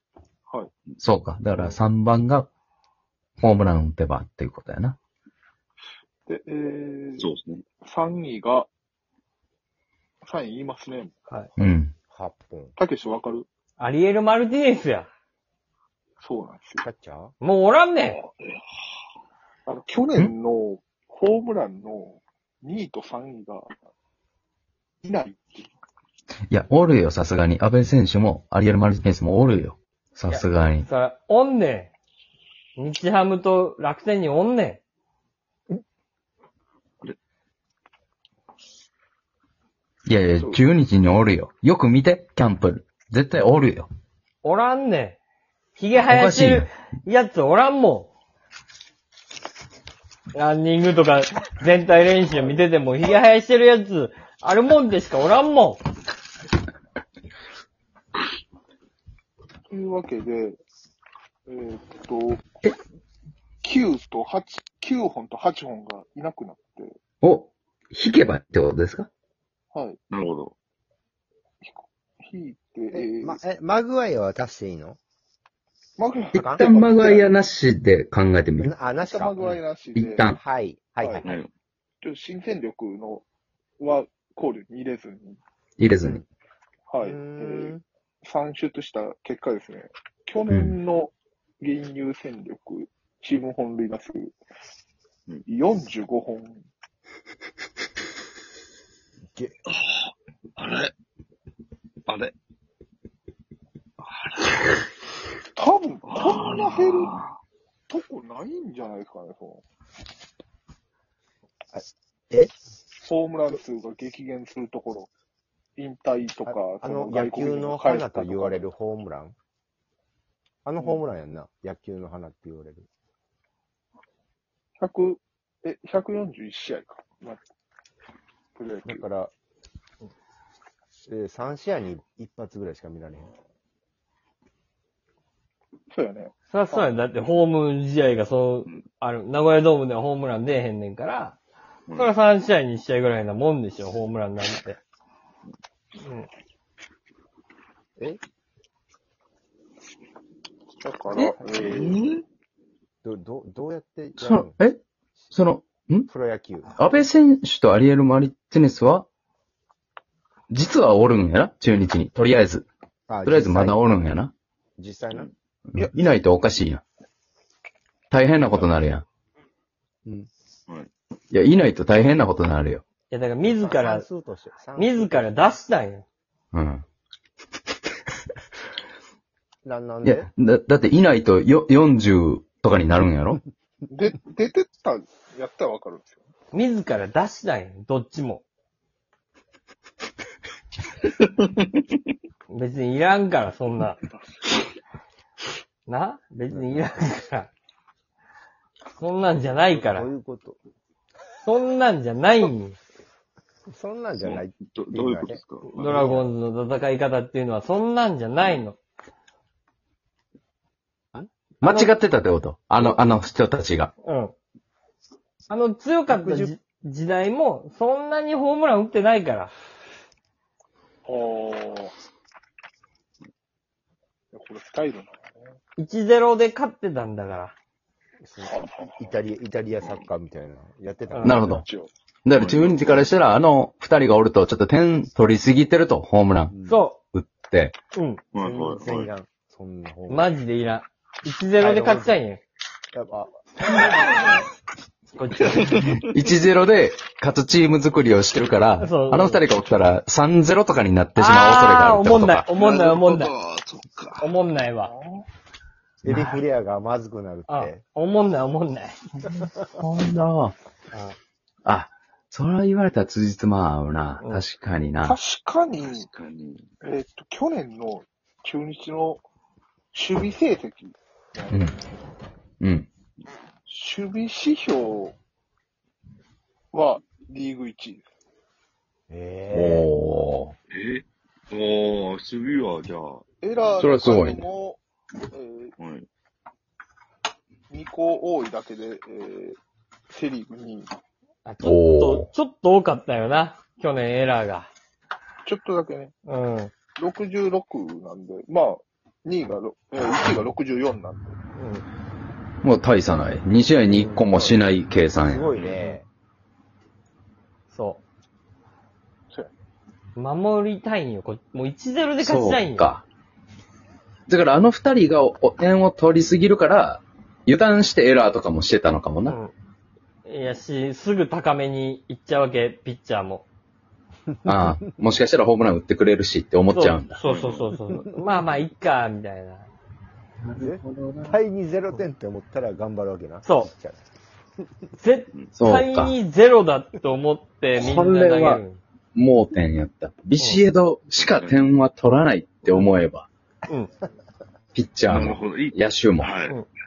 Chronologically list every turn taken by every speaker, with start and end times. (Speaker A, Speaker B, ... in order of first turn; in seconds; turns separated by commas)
Speaker A: 1.0-2.5, Speaker A: 3.4-5.0, Speaker B: 6.3-7.3, Speaker C: 7.2-7.7, Speaker B: 7.8-8.7, Speaker B: 10.2-11.7, Speaker A: 11.6-11.9, Speaker D: 12.1-12.8, Speaker B: 12.8-13.5, Speaker E: 13.8-15.1, Speaker B: 16.2-16.9, Speaker D: 16.8-17.3, Speaker E: 17.4-18.2, Speaker B: 19.7-23.7, Speaker B: 25.0-25.7, Speaker A: 26.5-30.9, Speaker E: 30.3-31.9, Speaker E: 32.8-34.8, Speaker A: 40.1-43.9, Speaker E: 44.4-45.2, Speaker E: 45.8-48.1, Speaker A: 46.0-46.7, Speaker E: 50.3-55.8, Speaker B: 59.7-60.6, Speaker B: 61.5-62.5, Speaker B: 63.6-67.0, Speaker A: 67.2-69.1, Speaker B: 69.7-70.0, Speaker C: 70.1-70.5, Speaker B: 71.6-73.4, Speaker D: 72.9-75.0, Speaker B: 76.0-77.3, Speaker D: 76.3-76.7, Speaker A: 76.3-78.7, Speaker D: 78.6-79.5, Speaker B: 79.0-80.2, Speaker A: 79.9-80.4, Speaker D: 80.2-81.3, Speaker B: 81.0-81.3, Speaker C: 81.2-81.5, Speaker B: 82.0-83.2, Speaker B: 83.8-85.4, Speaker A: 85.8-86.2, Speaker B: 86.9-94.3, Speaker D: 87.0-87.8, Speaker A: 90.5-90.7, Speaker B: 95.5-96.6, Speaker C: 99.7-100.9, Speaker C: 102.1-102.3, Speaker C: 104.0-104.8, Speaker B: 105.6-107.1, Speaker C: 106.0-107.4, Speaker B: 107.9-109.6, Speaker D: 111.7-112.5, Speaker B: 113.0-115.1, Speaker B: 115.8-118.7, Speaker D: 116.5-119.3, Speaker D: 120.6-122.9, Speaker B: 124.8-127.4, Speaker B: 128.6-129.1, Speaker D: 128.8-129.3, Speaker D: 131.1-133.3, Speaker B: 135.9-136.9, Speaker E: 136.5-141.4, Speaker E: 141.9-144.8, Speaker E: 146.0-146.3, Speaker B: 150.8-152.0, Speaker C: 151.6-152.2, Speaker D: 153.0-154.6, Speaker A: 154.2-154.8, Speaker A: 155.3-156.1, Speaker D: 156.1-156.7, Speaker A: 156.7-159.1, Speaker A: 160.5-162.7, Speaker D: 163.1-163.9, Speaker A: 163.2-164.3, Speaker D: 164.8-165.3, Speaker A: 165.7-166.8, Speaker A: 168.1-169.1, Speaker A: 171.3-172.8, Speaker E: 173.1-174.1, Speaker D: 173.4-175.4, Speaker E: 174.8-176.1, Speaker A: 176.5-176.8, Speaker D: 179.7-180.3, Speaker A: 180.0-183.4, Speaker B: 183.9-186.2, Speaker E: 186.5-188.4, Speaker E: 192.5-194.0, Speaker E: 195.9-197.5, Speaker D: 196.5-196.9, Speaker E: 198.9-200.1, Speaker D: 199.7-200.6, Speaker E: 201.4-202.8, Speaker D: 203.7-206.2, Speaker C: 204.2-206.3, Speaker E: 205.7-208.8, Speaker A: 211.6-213.9, Speaker E: 211.6-211.9, Speaker E: 214.0-214.3, Speaker E: 215.5-219.5, Speaker D: 216.1-216.5, Speaker B: 221.1-221.9, Speaker B: 224.3-225.2, Speaker E: 225.8-227.6, Speaker D: 228.2-231.6, Speaker B: 228.4-229.2, Speaker C: 229.8-230.1, Speaker E: 231.1-231.4, Speaker A: 231.2-231.7, Speaker B: 231.4-231.9, Speaker A: 232.2-236.5, Speaker C: 232.3-233.2, Speaker D: 236.5-236.8, Speaker E: 236.7-237.0, Speaker A: 237.1-237.8, Speaker E: 237.9-238.2, Speaker C: 238.3-239.1, Speaker D: 238.3-240.3, Speaker E: 240.1-242.4, Speaker D: 241.6-242.2, Speaker D: 242.9-244.3, Speaker E: 245.2-246.0, Speaker C: 245.3-246.2, Speaker A: 246.0-252.5, Speaker E: 248.8-249.4, Speaker E: 251.2-253.3, Speaker C: 252.5-254.3, Speaker E: 254.2-254.9, Speaker B: 254.8-255.3, Speaker D: 256.1-257.8, Speaker A: 256.1-256.3, Speaker E: 257.5-259.0, Speaker A: 259.8-260.6, Speaker A: 261.6-265.2, Speaker B: 265.0-266.1, Speaker C: 265.8-266.7, Speaker B: 266.8-269.2, Speaker B: 269.9-271.7, Speaker A: 271.5-271.8, Speaker A: 272.6-272.9, Speaker B: 273.7-275.1, Speaker B: 276.7-278.0, Speaker D: 279.1-279.9, Speaker A: 279.5-280.6, Speaker C: 280.7-283.2, Speaker B: 283.4-284.8, Speaker A: 283.8-284.4, Speaker B: 285.3-285.7, Speaker C: 285.8-286.1, Speaker B: 287.7-289.6, Speaker B: 290.1-290.9, Speaker E: 291.4-294.7, Speaker A: 291.6-292.3, Speaker B: 295.4-296.1, Speaker E: 296.3-296.7, Speaker B: 297.0-301.4, Speaker E: 301.6-301.8, Speaker A: 302.6-305.5, Speaker D: 303.9-304.6, Speaker D: 305.2-306.1, Speaker E: 307.7-308.0, Speaker E: 310.2-312.9, Speaker A: 312.2-313.1, Speaker A: 314.3-319.4, Speaker E: 319.3-319.5, Speaker E: 320.2-323.4, Speaker D: 324.4-324.8, Speaker A: 324.4-327.2, Speaker E: 326.7-329.7, Speaker C: 327.2-327.8, Speaker D: 327.9-328.2, Speaker A: 330.4-331.4, Speaker D: 330.6-334.0, Speaker E: 333.4-333.7, Speaker E: 335.0-338.8, Speaker A: 335.6-336.1, Speaker A: 337.8-338.6, Speaker A: 339.1-343.3, Speaker C: 341.2-341.6, Speaker A: 344.8-346.3, Speaker C: 345.1-346.6